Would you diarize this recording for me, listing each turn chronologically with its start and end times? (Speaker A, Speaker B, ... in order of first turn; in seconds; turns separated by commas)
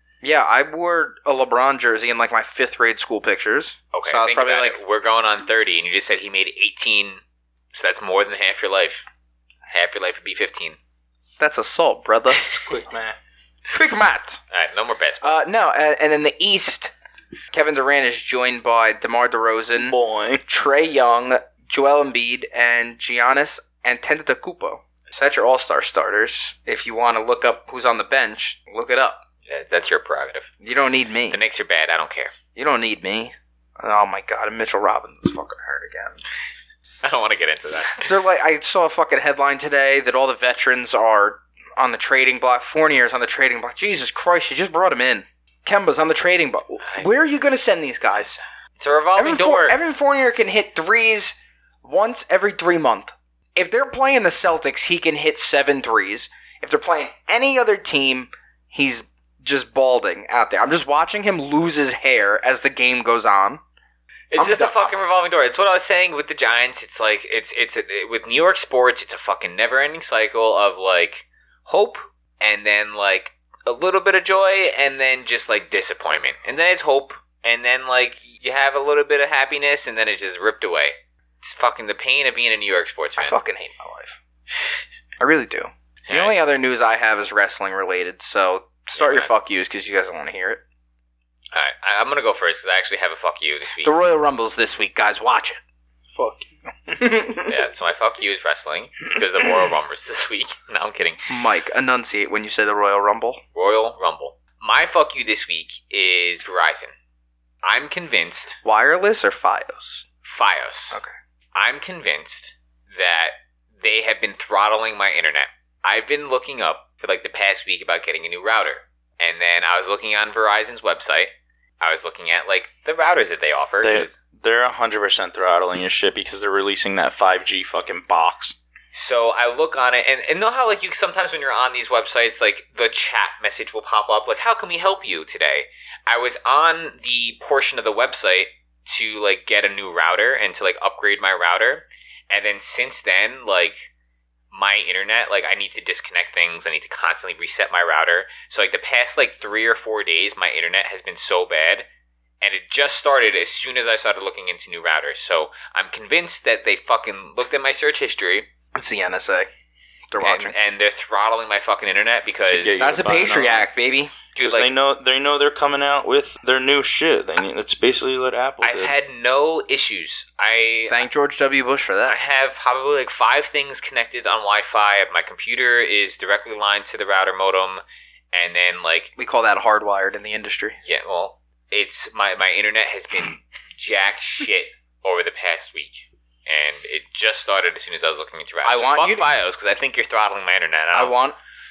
Speaker A: 0.2-4.8, Speaker B: 3.9-7.2, Speaker B: 7.7-9.0, Speaker B: 9.7-10.8, Speaker A: 11.4-12.4, Speaker C: 12.5-13.2, Speaker A: 13.7-14.4, Speaker B: 14.5-15.4, Speaker A: 15.2-16.9, Speaker A: 17.5-29.2, Speaker C: 19.8-20.4, Speaker B: 29.5-30.5, Speaker A: 30.6-31.4, Speaker B: 31.3-32.3, Speaker A: 32.5-36.2, Speaker B: 37.0-38.1, Speaker A: 38.0-48.4, Speaker B: 48.8-49.8, Speaker A: 49.1-63.6, Speaker B: 64.3-83.3, Speaker A: 64.4-64.9, Speaker A: 83.2-84.2, Speaker A: 85.2-90.6, Speaker B: 86.1-86.3, Speaker B: 89.0-89.3, Speaker B: 91.5-94.0, Speaker A: 93.8-95.6, Speaker C: 96.2-96.5, Speaker A: 96.2-97.5, Speaker B: 97.5-101.2, Speaker A: 101.3-103.4, Speaker B: 103.5-106.9, Speaker B: 107.6-108.6, Speaker A: 108.6-110.0, Speaker B: 110.2-111.0, Speaker B: 111.5-124.1, Speaker C: 123.8-128.6, Speaker B: 128.9-143.9, Speaker B: 144.5-151.8, Speaker B: 152.4-158.5, Speaker A: 158.7-159.5, Speaker A: 160.1-160.5, Speaker B: 160.2-162.8, Speaker C: 162.5-163.7, Speaker A: 162.8-164.1, Speaker B: 164.3-164.7, Speaker C: 164.4-168.9, Speaker B: 168.6-171.1, Speaker A: 170.9-172.2, Speaker B: 172.1-179.1, Speaker A: 179.2-180.8, Speaker B: 180.8-191.2, Speaker A: 188.6-189.3, Speaker A: 190.9-191.3